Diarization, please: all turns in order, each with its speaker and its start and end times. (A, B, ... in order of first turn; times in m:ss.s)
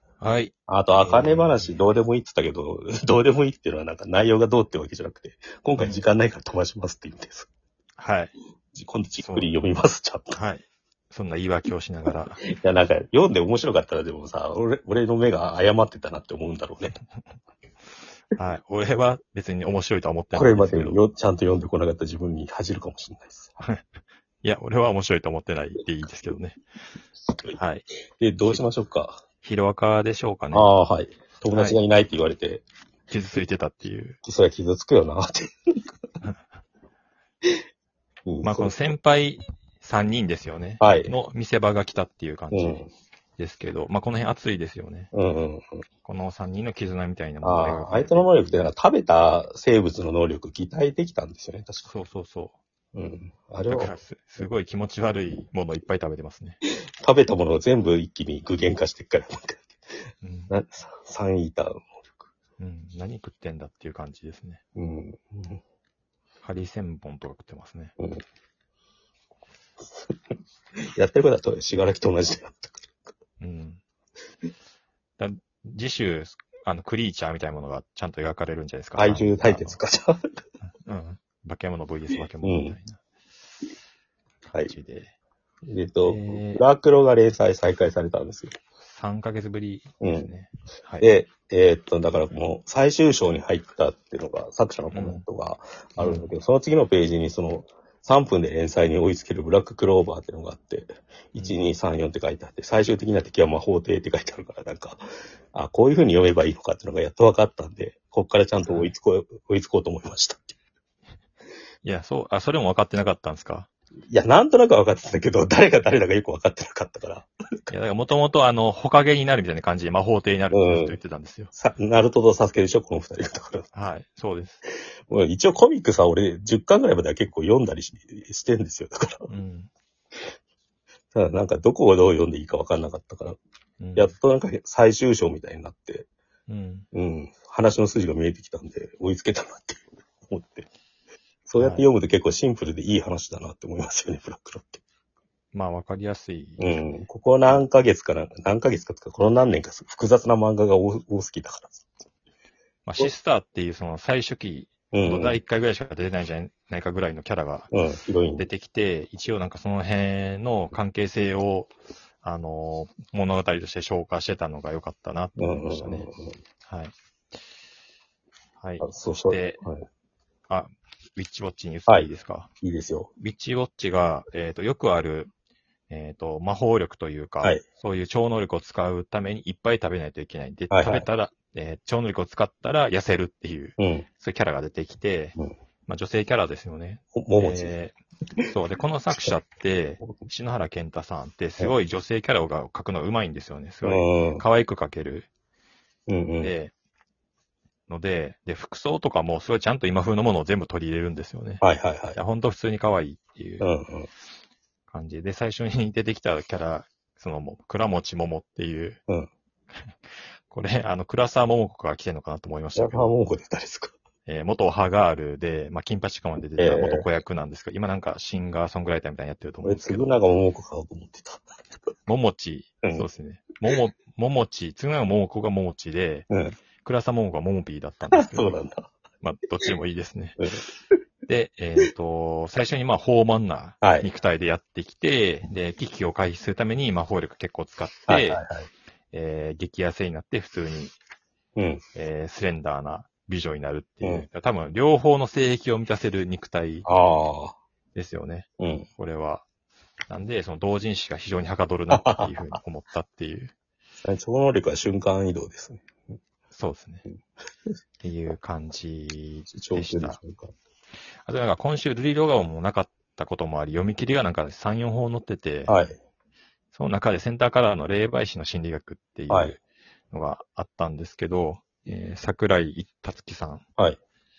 0:00.2-0:01.8 A
0:00.7-0:07.5 B
0:08.0-0:08.3 A
0:08.7-0:10.4 B
0:09.2-0:09.5 A
0:10.3-0:12.4 A
0:12.1-0:17.0 B
0:18.4-0:21.0 A
0:20.3-0:23.6 B
0:23.6-0:23.9 A
0:24.4-0:26.6 A
0:27.3-0:27.6 B
0:27.6-0:27.9 A
0:28.2-0:29.2 B
0:29.4-0:30.7 A
0:30.5-0:32.6 B
0:31.5-0:31.8 A
0:33.1-0:34.2 A
0:34.2-0:35.5 B
0:38.3-0:38.7 B
0:38.4-0:42.8 A
0:40.8-0:41.1 B
0:42.5-0:42.9 B
0:43.4-0:45.1 A
0:45.1-0:45.8 B
0:46.0-0:48.5 A
0:47.4-0:51.9 B
0:51.8-0:52.6 A
0:52.9-0:54.4 B
0:53.7-0:56.6 A
0:56.6-0:59.8 B
1:00.2-1:00.5 A
1:00.5-1:02.2 B
1:02.6-1:04.6 A
1:04.8-1:05.6 B
1:06.4-1:07.9 A
1:11.0-1:13.0 B
1:13.4-1:13.8 A
1:15.2-1:19.8 A
1:19.0-1:20.4 B
1:20.8-1:23.0 A
1:22.4-1:22.8 B
1:24.6-1:25.1 A
1:25.7-1:28.6 B
1:26.0-1:26.6 A
1:28.8-1:31.1 A
1:30.0-1:30.3 B
1:31.0-1:45.0 B
1:34.9-1:35.2 A
1:36.0-1:36.3 A
1:41.4-1:41.6 A
1:45.5-1:50.6 B
1:48.6-1:48.9 A
1:51.8-1:53.7 A
1:54.1-1:57.7 B
1:57.7-2:01.5 A
2:00.5-2:01.0 B
2:01.5-2:03.7 B
2:03.7-2:04.6 A
2:05.1-2:09.3 B
2:09.3-2:09.7 A
2:11.1-2:13.4 B
2:13.8-2:14.2 A
2:14.0-2:16.1 B
2:16.5-2:16.9 A
2:16.9-2:20.7 B
2:21.5-2:24.8 B
2:21.6-2:21.9 A
2:25.5-2:26.8 A
2:26.6-2:31.9 B
2:32.9-2:37.7 A
2:34.9-2:35.4 B
2:37.7-2:38.5 B
2:38.4-2:46.1 A
2:45.4-2:46.4 B
2:46.7-2:46.9 A
2:48.6-2:49.6 A
2:48.8-2:49.9 B
2:50.5-2:52.5 A
2:52.6-2:53.1 B
2:53.2-2:55.3 A
2:55.9-3:05.4 A
3:00.7-3:01.1 B
3:03.8-3:04.1 B
3:05.9-3:08.0 A
3:07.2-3:07.7 B
3:08.5-3:15.3 A
3:10.0-3:10.3 B
3:13.8-3:14.4 B
3:16.1-3:16.6 B
3:16.4-3:16.7 A
3:17.9-3:21.6 A
3:21.6-3:22.2 B
3:22.2-3:23.7 A
3:23.6-3:24.1 B
3:24.9-3:29.0 A
3:30.5-3:33.1 A
3:32.8-3:33.9 B
3:34.3-3:40.2 A
3:36.6-3:37.1 B
3:39.6-3:41.5 B
3:42.1-3:46.3 A
3:46.3-3:46.6 B
3:46.8-3:48.6 A
3:48.1-3:48.9 B
3:49.2-3:50.4 A
3:50.4-3:50.7 B
3:51.3-3:58.4 A
3:53.8-3:54.1 B
3:58.1-3:58.7 B
3:59.1-4:01.0 A
4:01.6-4:01.8 B
4:02.0-4:06.9 A
4:04.0-4:04.3 B
4:06.8-4:07.6 B
4:08.0-4:09.4 A
4:08.6-4:08.9 B
4:10.1-4:13.5 A
4:11.9-4:12.6 B
4:14.0-4:15.9 B
4:16.5-4:17.0 A
4:18.0-4:20.2 A
4:19.5-4:20.5 B
4:21.2-4:25.7 A
4:25.7-4:26.0 B
4:26.7-4:29.6 A
4:29.3-4:29.6 B
4:30.1-4:33.6 A